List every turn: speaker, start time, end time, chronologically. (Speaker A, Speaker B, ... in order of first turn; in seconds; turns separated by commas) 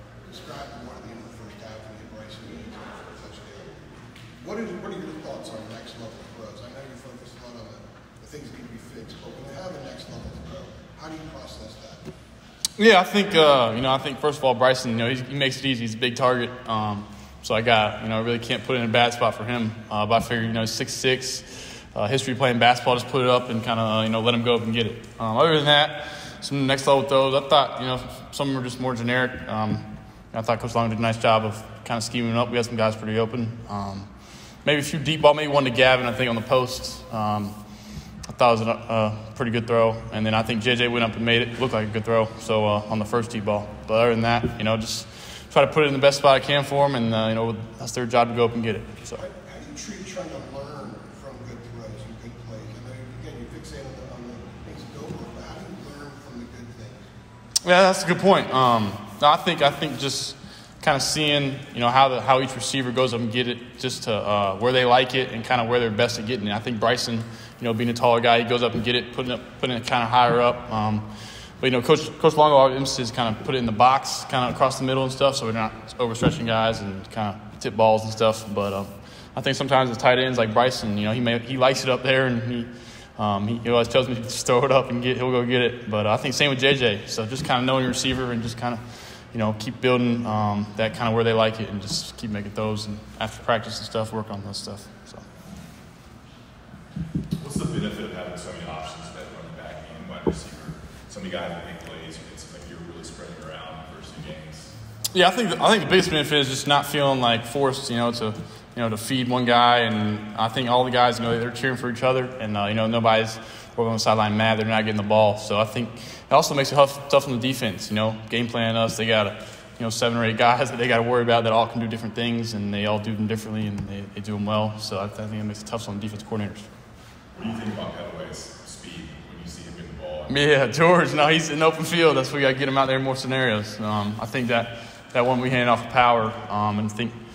Speaker A: 0.2-3.8, Speaker A: 4.4-12.0, Speaker B: 12.8-49.2, Speaker A: 49.2-57.0, Speaker B: 57.6-95.2, Speaker C: 97.4-104.7, Speaker B: 105.1-126.7, Speaker C: 127.3-130.3, Speaker B: 130.3-137.2